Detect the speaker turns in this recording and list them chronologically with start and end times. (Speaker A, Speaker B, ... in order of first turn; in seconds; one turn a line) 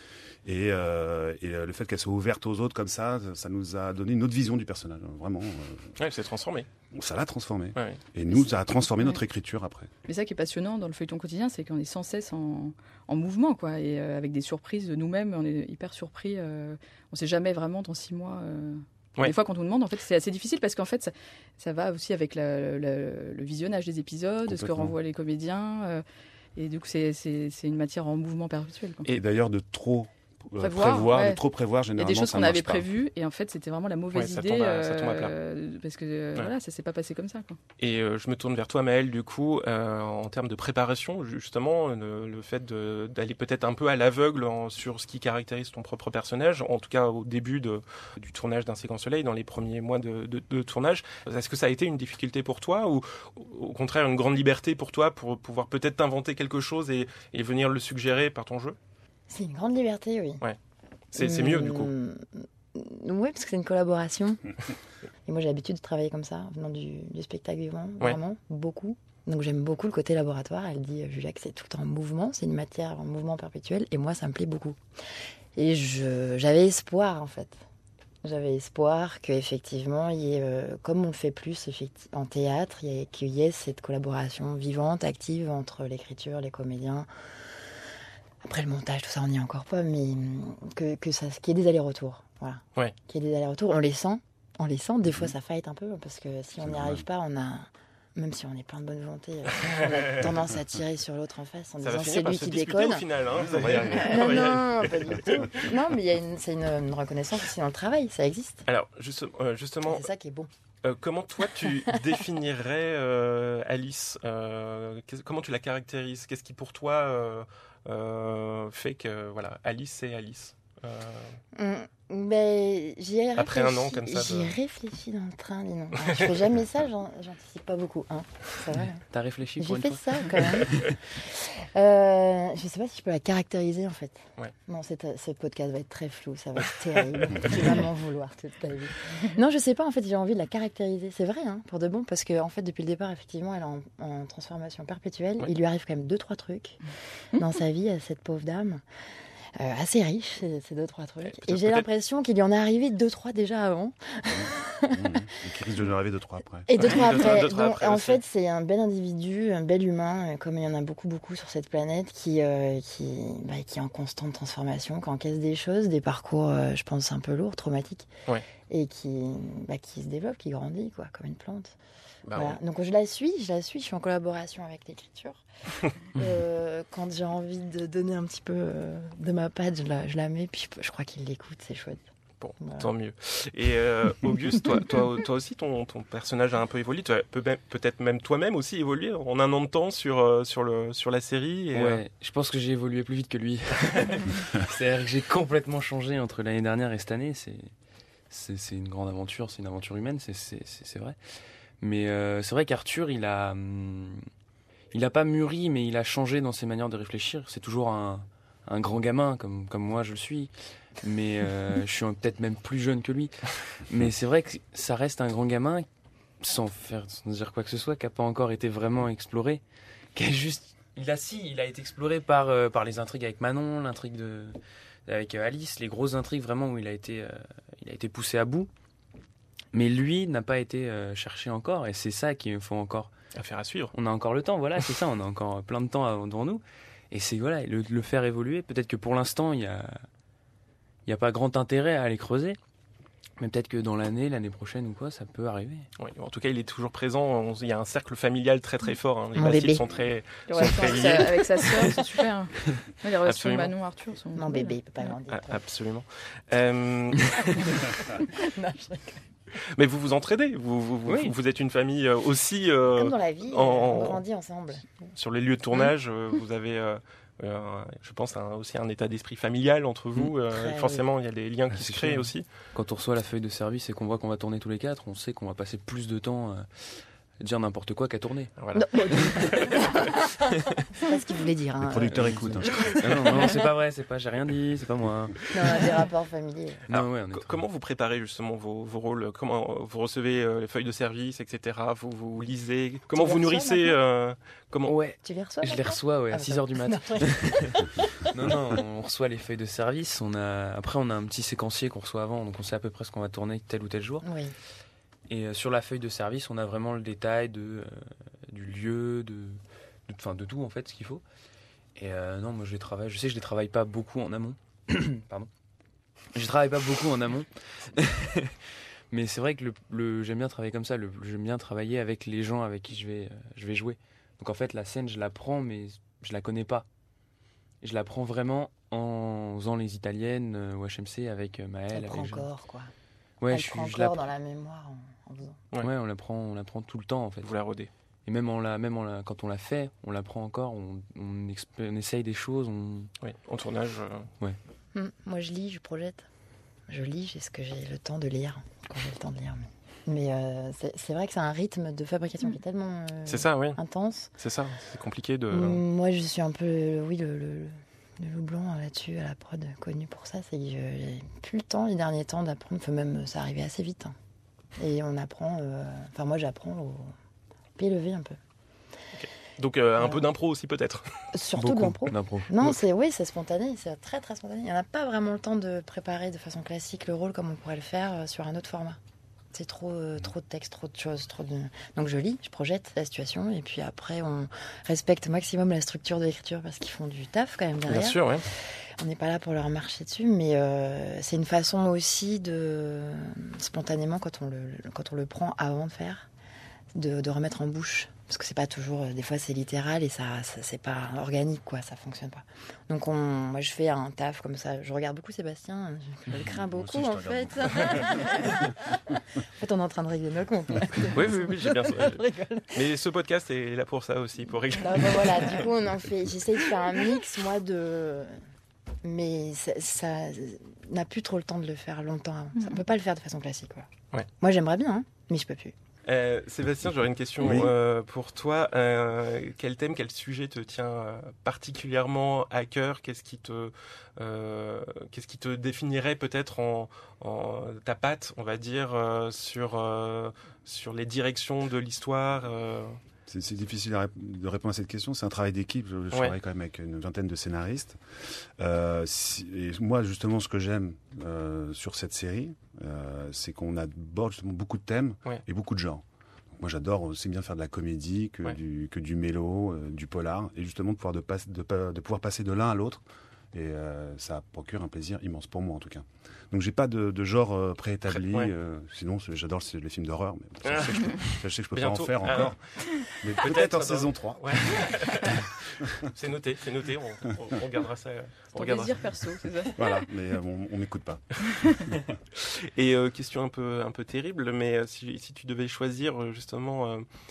Speaker A: 0.4-5.9
Speaker B: 6.0-6.7
Speaker A: 6.9-9.9
Speaker C: 10.1-26.0
Speaker A: 24.5-24.9
Speaker C: 26.6-29.1
Speaker A: 29.1-32.9
Speaker C: 30.6-31.4
Speaker C: 32.0-37.6
Speaker B: 34.1-35.3
Speaker B: 37.8-58.8
Speaker D: 59.3-60.4
Speaker B: 61.1-61.9
Speaker D: 61.2-64.5
Speaker D: 65.2-74.8
Speaker D: 75.5-77.6
Speaker D: 78.2-87.1
Speaker D: 88.4-103.0
Speaker A: 95.1-95.3
Speaker A: 96.6-97.0
Speaker B: 99.9-100.3
Speaker B: 101.8-105.6
Speaker A: 103.3-104.2
Speaker D: 103.6-108.6
Speaker B: 108.7-110.1
Speaker D: 109.8-110.5
Speaker B: 110.8-121.4
Speaker D: 121.5-129.1
Speaker B: 123.4-124.6
Speaker B: 126.0-126.3
Speaker E: 129.1-130.9
Speaker D: 129.6-146.8
Speaker D: 147.3-148.8
Speaker D: 149.6-155.1
Speaker B: 151.2-151.9
Speaker A: 154.3-157.0
Speaker D: 156.7-168.1
Speaker B: 156.8-158.2
Speaker D: 168.7-171.8
Speaker B: 172.3-172.6
Speaker D: 172.3-175.4
Speaker D: 176.1-182.0
Speaker B: 182.4-192.0
Speaker D: 182.6-182.9
Speaker E: 191.7-197.7
Speaker E: 198.3-201.2
Speaker E: 201.8-204.2
Speaker E: 204.9-215.9
Speaker E: 216.4-219.6
Speaker E: 220.1-228.7
Speaker E: 229.7-233.1
Speaker B: 233.4-233.9
Speaker E: 233.9-240.1
Speaker E: 241.1-242.6
Speaker E: 243.4-245.9
Speaker B: 246.0-251.3
Speaker D: 249.4-249.8
Speaker D: 250.5-251.9
Speaker C: 250.5-255.1
Speaker B: 253.2-253.7
Speaker D: 254.3-255.6
Speaker B: 255.3-257.9
Speaker D: 257.5-259.2
Speaker B: 259.7-264.2
Speaker E: 261.1-261.4
Speaker D: 262.9-265.0
Speaker B: 265.1-272.5
Speaker D: 270.5-271.0
Speaker E: 271.7-278.6
Speaker B: 278.6-280.0
Speaker D: 278.8-280.3
Speaker D: 280.9-283.7
Speaker A: 281.8-283.0
Speaker E: 282.1-285.4
Speaker D: 285.5-286.8
Speaker E: 286.9-287.6
Speaker B: 286.9-294.9
Speaker D: 293.2-294.0
Speaker E: 294.9-297.7
Speaker D: 295.2-298.1
Speaker E: 298.3-304.3
Speaker D: 304.2-304.6
Speaker E: 305.3-311.2
Speaker E: 312.0-315.5
Speaker E: 316.3-318.5
Speaker E: 319.1-326.9
Speaker E: 327.8-332.5
Speaker D: 331.9-332.9
Speaker E: 333.4-334.2
Speaker D: 333.5-335.6
Speaker E: 335.8-337.5
Speaker B: 337.4-337.9
Speaker E: 338.2-343.1
Speaker B: 343.2-344.3
Speaker D: 344.9-346.2
Speaker D: 346.9-354.3
Speaker B: 353.2-353.8
Speaker B: 354.4-355.8
Speaker D: 355.5-364.1
Speaker D: 364.8-367.1
Speaker D: 367.8-368.4
Speaker B: 369.1-371.2
Speaker D: 370.0-370.2
Speaker D: 371.3-379.0
Speaker E: 371.6-372.8
Speaker D: 379.5-396.3
Speaker B: 387.9-388.5
Speaker D: 396.9-412.8
Speaker A: 406.3-409.1
Speaker B: 411.1-415.7
Speaker D: 414.8-418.4
Speaker D: 419.0-423.9
Speaker D: 424.4-425.8
Speaker B: 426.1-443.0
Speaker A: 427.4-427.7
Speaker A: 443.3-463.0
Speaker A: 463.5-474.9
Speaker B: 468.1-468.5
Speaker B: 470.6-479.1
Speaker C: 478.5-479.8
Speaker A: 479.8-481.4
Speaker B: 482.4-487.1